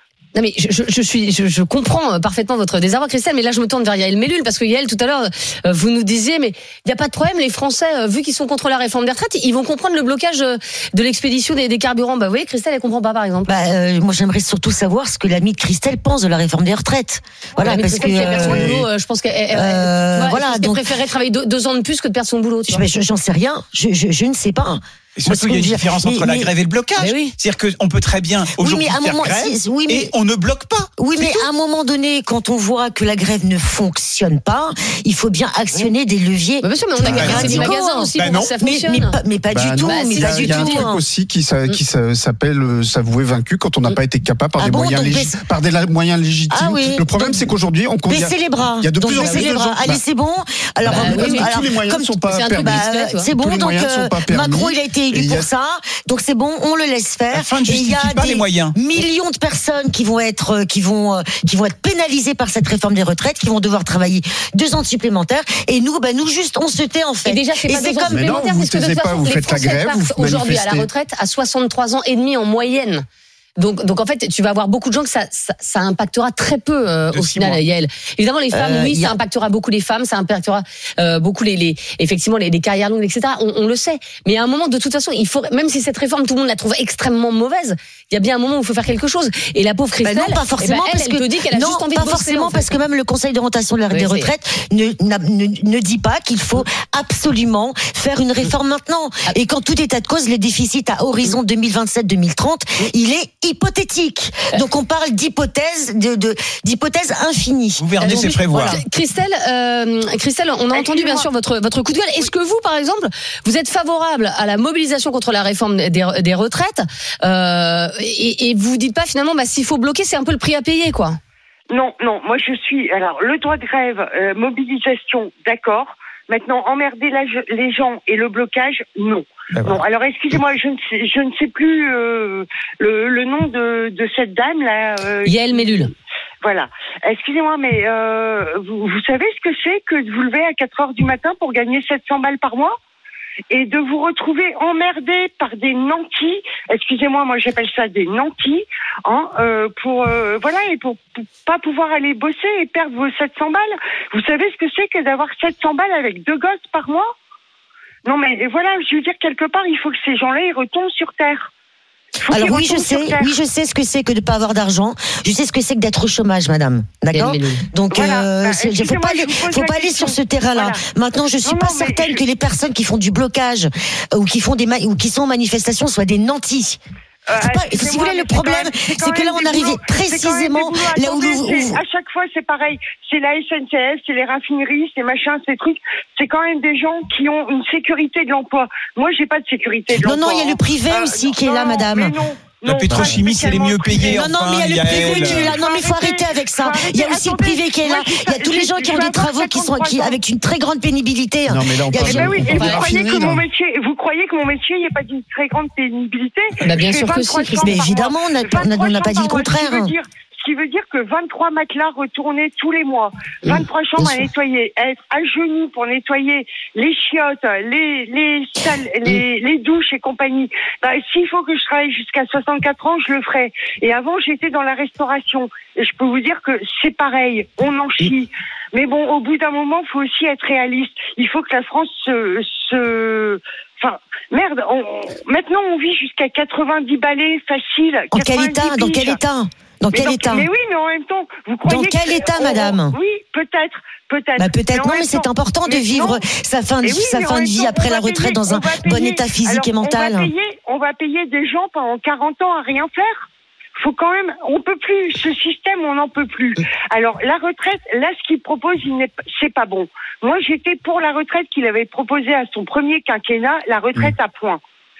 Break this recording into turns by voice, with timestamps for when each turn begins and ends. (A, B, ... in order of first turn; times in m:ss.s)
0:00.3-0:13.5 A
0:13.4-0:18.8 B
0:17.6-0:22.8 A
0:18.4-0:18.8 C
0:19.5-0:20.8 B
0:22.7-0:26.5 B
0:25.2-0:31.5 D
0:27.0-0:27.3 A
0:28.5-0:30.1 B
0:31.0-0:41.0 B
0:36.6-0:39.2 A
0:37.1-0:37.7 C
0:37.2-0:37.6 D
0:38.2-0:38.5 D
0:39.5-0:50.0 C
0:39.8-0:40.9 A
0:44.6-0:45.4 B
0:46.5-0:47.4 B
0:48.1-1:08.4 B
0:49.1-0:49.5 A
0:50.8-0:52.8 C
0:50.9-0:51.5 A
0:52.3-0:53.3 A
0:53.3-0:55.5 C
0:57.3-0:58.8 D
1:07.2-1:13.0 A
1:08.1-1:10.9 C
1:13.6-1:32.8 A
1:17.1-1:17.6 D
1:18.5-1:19.2 B
1:30.0-1:48.8 B
1:33.9-1:34.3 A
1:47.8-1:48.8 D
1:48.0-2:01.2 A
1:50.7-1:51.3 E
2:01.7-2:15.9 E
2:09.5-2:09.8 D
2:15.2-2:15.9 A
2:16.4-2:22.8 E
2:23.5-2:37.1 E
2:38.0-2:41.5 E
2:42.2-2:43.3 E
2:42.3-2:56.8 B
2:47.1-2:47.6 A
2:47.9-2:50.9 E
2:51.4-2:52.2 E
2:57.3-3:14.2 E
2:57.4-3:01.8 B
3:09.9-3:12.2 B
3:12.6-3:15.6 D
3:12.9-3:13.2 B
3:14.0-3:22.7 B
3:14.9-3:20.2 E
3:21.5-3:23.4 C
3:22.0-3:59.2 E
3:22.5-3:22.8 A
3:26.6-3:27.8 A
3:27.6-3:29.9 B
3:58.1-4:00.5 B
3:59.9-4:06.2 E
4:01.6-4:03.0 B
4:04.4-4:10.3 B
4:06.8-4:24.6 E